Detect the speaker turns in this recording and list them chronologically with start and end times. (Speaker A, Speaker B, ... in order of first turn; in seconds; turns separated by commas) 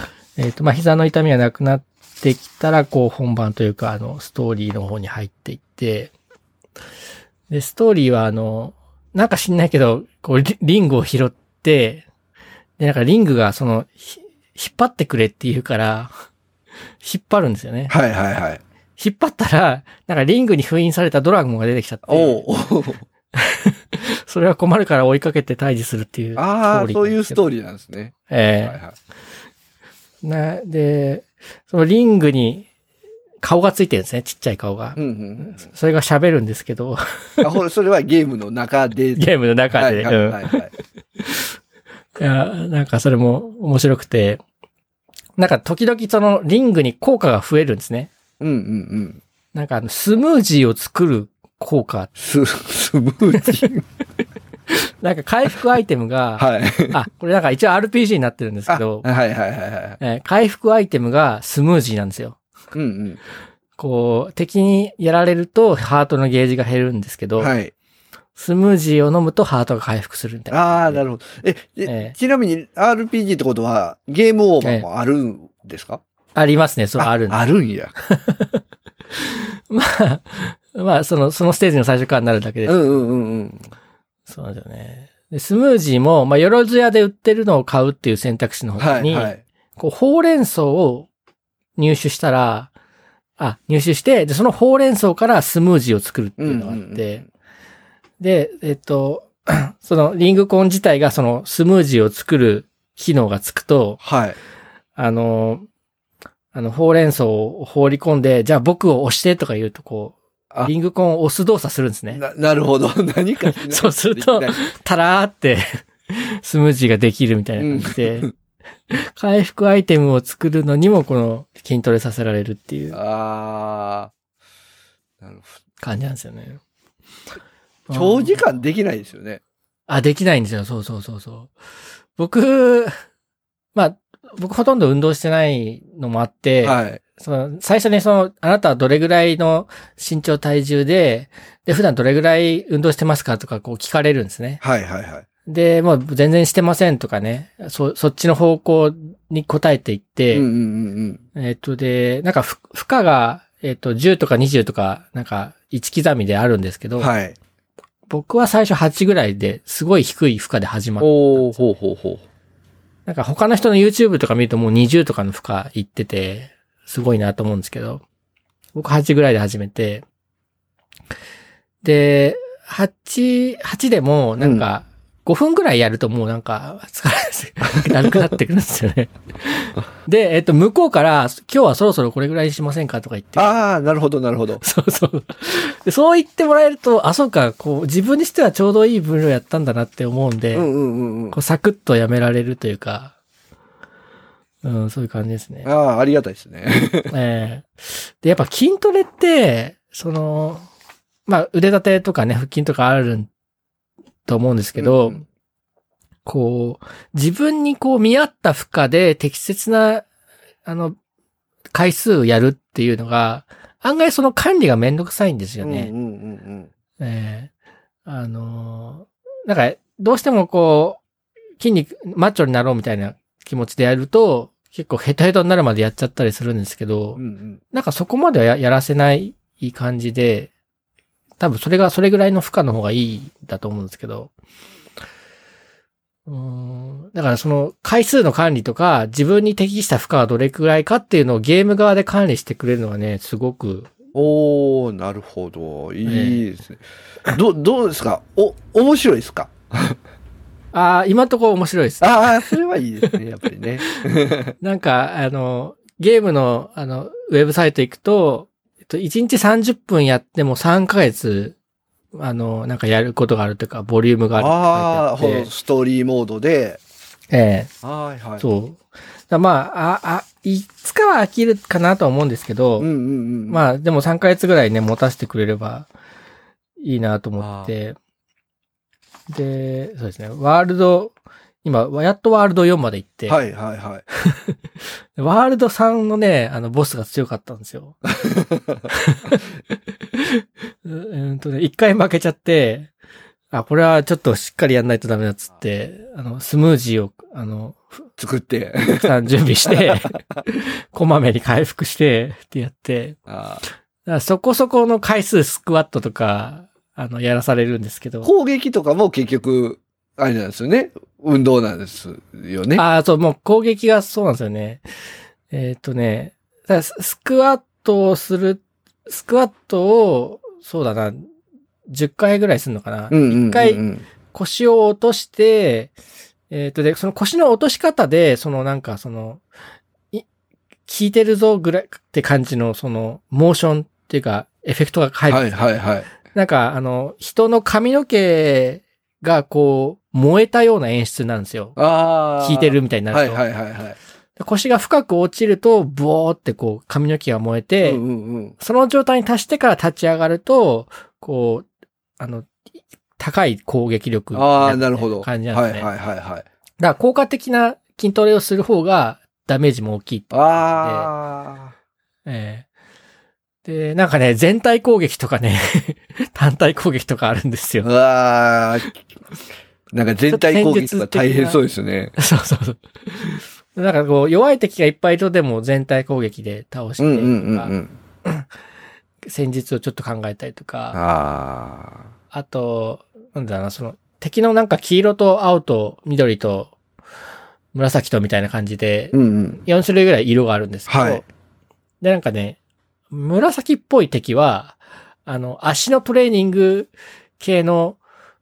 Speaker A: 0.3-6.1, Speaker A: 7.5-12.0, Speaker A: 12.8-16.1, Speaker A: 17.0-17.9, Speaker B: 17.9-18.6, Speaker A: 19.0-22.4, Speaker B: 22.1-23.0, Speaker A: 23.4-27.4, Speaker B: 26.4-28.9, Speaker A: 28.3-28.8, Speaker A: 30.2-32.7, Speaker A: 33.4-37.4, Speaker B: 35.0-35.6, Speaker B: 37.4-40.7, Speaker A: 39.1-40.6, Speaker A: 41.2-41.5, Speaker A: 42.2-44.4, Speaker A: 45.4-48.1, Speaker B: 48.4-49.2, Speaker A: 49.5-52.1, Speaker B: 52.2-53.8, Speaker A: 54.9-59.0, Speaker B: 56.4-57.0, Speaker B: 58.7-60.0, Speaker A: 60.0-62.4, Speaker B: 62.7-63.2, Speaker A: 63.8-67.5, Speaker B: 67.4-67.7, Speaker A: 68.3-71.0, Speaker B: 70.5-76.0, Speaker A: 71.8-72.2, Speaker A: 74.6-74.9, Speaker A: 76.3-77.4, Speaker B: 77.0-77.9, Speaker A: 78.0-78.6, Speaker A: 79.2-83.0, Speaker B: 82.7-83.7, Speaker A: 84.3-91.1, Speaker B: 88.8-89.4, Speaker A: 91.8-92.7, Speaker A: 93.4-97.2, Speaker B: 96.4-97.2, Speaker A: 98.2-104.0, Speaker B: 104.0-104.4, Speaker A: 105.0-105.7, Speaker A: 106.5-112.2, Speaker B: 112.1-114.6, Speaker A: 113.5-118.3, Speaker B: 117.6-118.3, Speaker A: 118.9-123.0, Speaker B: 122.9-124.1, Speaker B: 125.2-125.6, Speaker A: 125.8-126.6, Speaker A: 127.9-128.6, Speaker B: 127.9-129.4, Speaker A: 129.9-131.5, Speaker A: 132.2-132.9, Speaker A: 133.7-144.6, Speaker B: 136.6-137.0, Speaker B: 144.6-145.2, Speaker A: 145.4-150.4, Speaker B: 150.3-151.2, Speaker A: 151.3-157.1, Speaker B: 157.0-157.4, Speaker A: 158.1-161.6, Speaker B: 161.0-162.2, Speaker A: 163.1-168.0, Speaker A: 168.8-170.0, Speaker A: 171.8-183.5, Speaker B: 174.4-174.7, Speaker B: 183.3-184.6, Speaker A: 184.6-190.7, Speaker B: 190.5-191.4, Speaker A: 191.3-193.1, Speaker A: 194.6-195.7, Speaker B: 195.6-197.1, Speaker A: 197.1-200.7, Speaker A: 201.2-203.3, Speaker A: 204.2-205.2, Speaker B: 204.8-205.2, Speaker A: 206.2-210.0, Speaker A: 210.6-210.9, Speaker A: 211.7-215.9, Speaker B: 215.6-216.7, Speaker A: 217.0-217.5, Speaker A: 218.1-221.0, Speaker A: 221.6-227.2, Speaker B: 227.2-227.6, Speaker A: 227.7-230.5, Speaker A: 231.4-234.3, Speaker A: 236.3-243.9, Speaker B: 244.1-250.0, Speaker A: 246.1-246.4, Speaker A: 250.7-252.5, Speaker B: 252.0-254.5, Speaker A: 254.6-261.6, Speaker A: 262.1-265.5, Speaker B: 264.4-266.8, Speaker A: 267.3-267.7, Speaker B: 267.8-268.4, Speaker A: 268.4-268.8, Speaker A: 269.3-272.9, Speaker B: 272.8-273.6, Speaker A: 273.5-275.9, Speaker A: 276.8-277.9, Speaker B: 277.4-277.7, Speaker A: 279.3-283.4, Speaker B: 283.3-284.0, Speaker A: 284.2-284.6, Speaker A: 285.1-288.1, Speaker B: 288.4-288.8, Speaker A: 288.9-289.4, Speaker A: 290.1-292.9, Speaker A: 293.5-297.9, Speaker B: 298.2-299.1, Speaker A: 299.0-303.2, Speaker B: 303.3-303.6, Speaker A: 304.0-308.3, Speaker B: 308.2-312.8, Speaker A: 312.8-314.8, Speaker A: 315.5-321.2, Speaker A: 321.9-325.9, Speaker B: 323.1-324.0, Speaker A: 326.5-329.4, Speaker A: 330.9-335.6, Speaker B: 335.3-336.1, Speaker A: 336.3-341.8, Speaker B: 341.8-344.0, Speaker A: 342.4-343.4, Speaker A: 344.4-348.0, Speaker B: 347.8-348.5, Speaker A: 348.6-351.6, Speaker A: 352.2-352.6, Speaker A: 353.2-355.9, Speaker B: 354.3-356.4, Speaker A: 356.8-361.1, Speaker B: 360.3-361.7, Speaker A: 362.2-362.7, Speaker A: 363.6-367.9, Speaker B: 367.8-368.9, Speaker B: 369.9-372.1, Speaker A: 370.3-371.6, Speaker A: 372.2-377.7, Speaker B: 377.0-377.9, Speaker A: 378.2-378.5, Speaker A: 379.2-381.0, Speaker B: 380.9-382.0, Speaker A: 382.3-386.7, Speaker A: 387.7-391.2, Speaker B: 389.1-389.6, Speaker B: 390.9-391.2, Speaker A: 392.0-392.6, Speaker A: 393.1-398.0